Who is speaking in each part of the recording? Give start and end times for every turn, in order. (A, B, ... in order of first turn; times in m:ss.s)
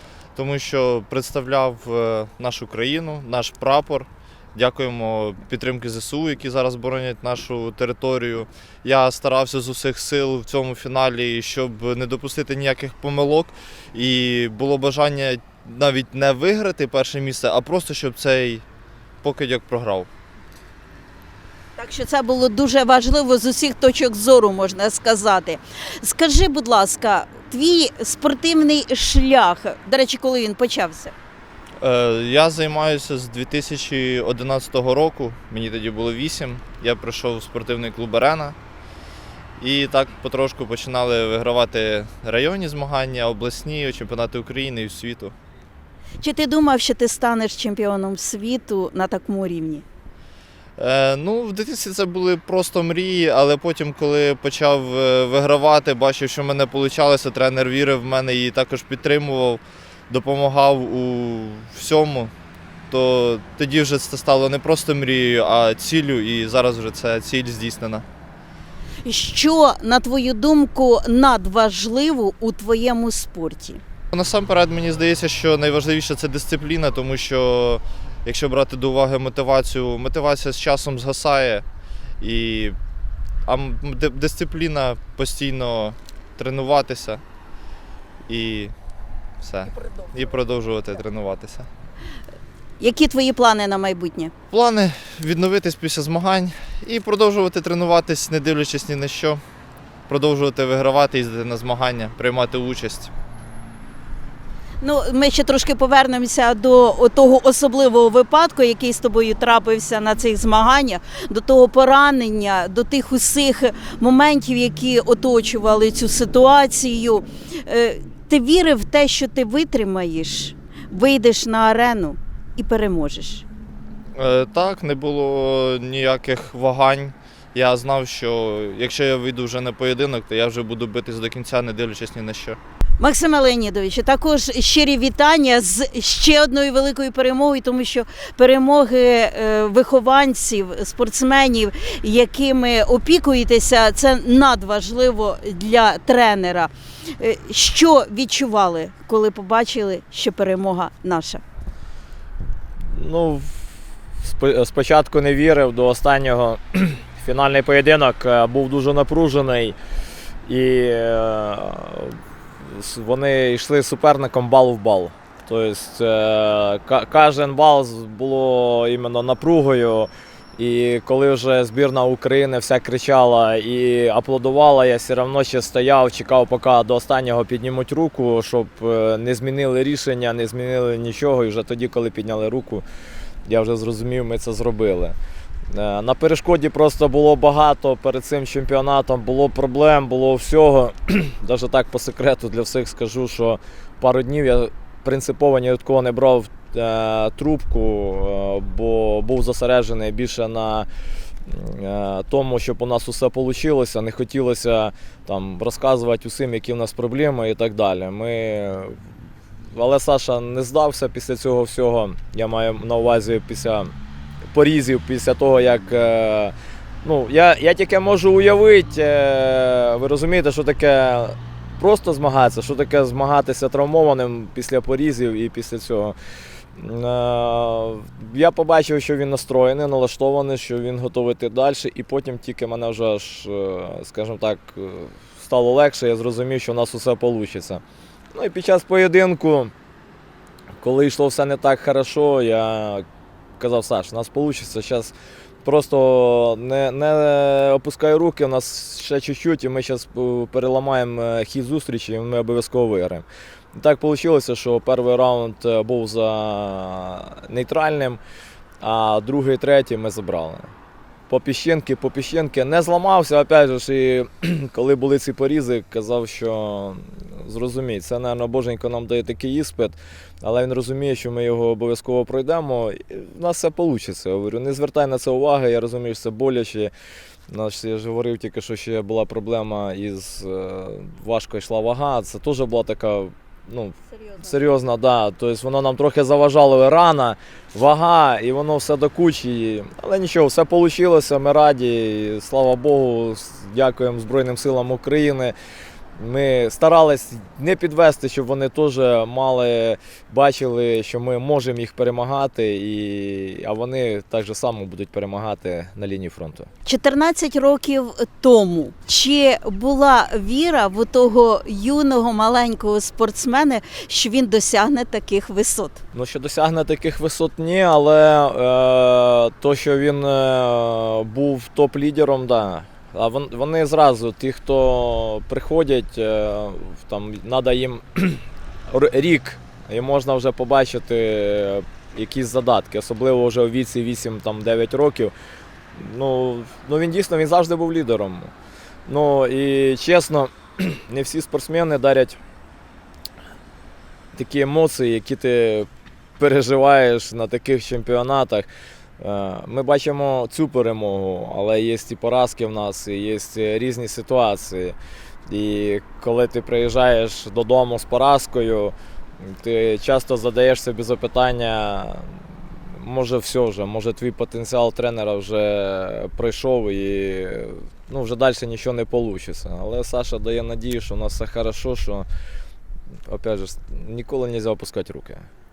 0:00.4-0:18.6 A
0:19.2-0:20.1 A
0:21.8-0:31.1 B
0:31.8-0:38.5 A
0:39.6-0:45.3 A
0:46.2-0:49.8 B
0:50.8-1:02.3 A
1:02.9-1:08.0 A
1:09.0-1:13.8 B
1:14.1-1:21.6 A
1:22.2-1:22.8 A
1:23.4-1:27.2 A
1:28.3-1:28.7 A
1:29.4-1:31.7 A
1:32.8-1:34.3 B
1:34.5-1:39.4 A
1:40.1-1:43.1 A
1:44.8-2:03.4 B
2:04.2-2:12.6 A
2:13.0-2:31.4 B
2:32.9-2:39.8 C
2:40.4-3:02.8 C
3:03.4-3:05.2 C
3:05.7-3:20.9 C
3:21.5-3:29.0 C
3:29.7-3:33.9 C
3:34.5-3:46.2 C
3:46.8-3:57.8 C
3:58.3-3:59.7 C
4:00.8-4:03.0 C
4:03.6-4:05.1 C
4:05.6-4:18.2 C
4:18.8-4:20.7 C
4:21.3-4:36.9 C
4:37.5-4:55.5 C
4:44.1-4:44.6 B
4:56.2-5:06.7 C
5:06.8-5:16.0 B
5:16.1-5:35.3 C
5:35.9-5:38.5 C
5:39.0-5:42.4 C
5:44.3-5:45.9 C
5:46.4-5:55.0 C
5:55.5-6:12.2 C
6:13.3-6:15.5 C